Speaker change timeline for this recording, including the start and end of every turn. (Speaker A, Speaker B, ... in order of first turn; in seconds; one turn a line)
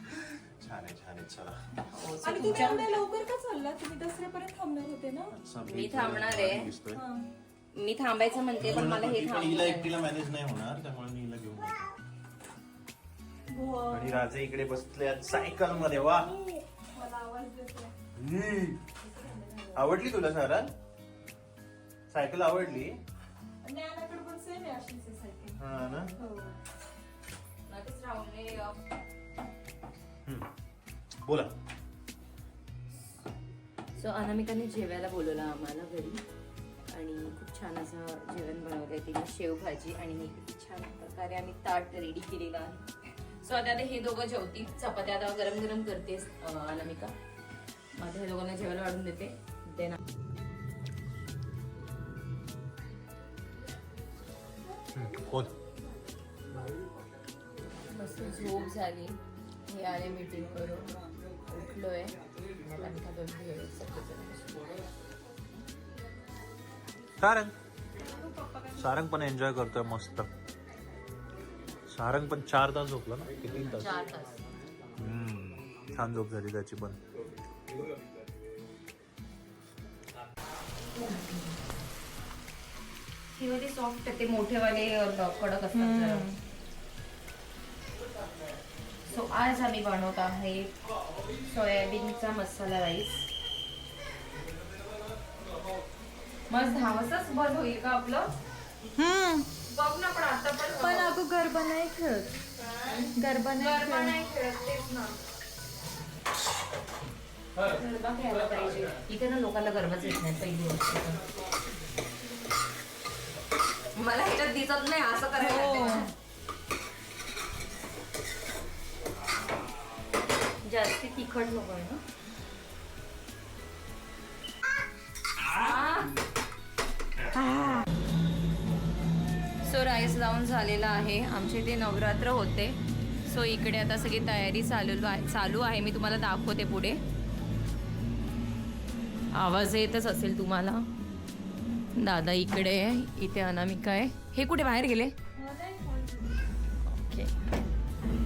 Speaker A: 0.3-1.6
Speaker B: 1.9-2.9
Speaker C: 2.2-5.3
Speaker A: 5.3-7.0
Speaker B: 5.6-6.7
Speaker C: 6.9-7.3
Speaker B: 7.7-10.0
Speaker A: 8.6-11.9
Speaker C: 13.5-14.2
Speaker A: 13.9-16.4
Speaker C: 16.9-17.9
Speaker A: 18.1-18.8
Speaker C: 19.0-19.8
Speaker A: 19.7-20.7
Speaker A: 22.1-23.0
Speaker C: 23.6-25.6
Speaker A: 25.6-26.1
Speaker C: 26.1-26.6
Speaker B: 27.7-28.8
Speaker A: 31.2-31.5
Speaker B: 34.0-36.2
Speaker B: 36.9-42.8
Speaker B: 43.4-47.1
Speaker B: 47.9-50.0
Speaker A: 54.9-55.5
Speaker B: 57.9-60.9
Speaker B: 61.5-64.6
Speaker A: 67.2-67.5
Speaker C: 68.0-68.9
Speaker A: 68.7-70.3
Speaker A: 71.9-74.0
Speaker B: 73.6-74.4
Speaker A: 74.9-77.0
Speaker B: 81.0-81.4
Speaker B: 83.3-86.3
Speaker C: 85.7-86.4
Speaker B: 89.0-90.7
Speaker B: 91.3-93.3
Speaker B: 96.5-98.3
Speaker C: 99.0-99.5
Speaker B: 99.6-101.2
Speaker C: 100.8-104.2
Speaker B: 102.8-105.2
Speaker B: 107.6-111.2
Speaker B: 114.0-116.1
Speaker C: 115.4-116.1
Speaker B: 120.6-122.0
Speaker B: 125.4-126.1
Speaker B: 127.3-127.8
Speaker B: 129.6-137.0
Speaker B: 139.3-140.8
Speaker B: 141.9-145.1
Speaker C: 145.3-146.4
Speaker B: 146.8-147.3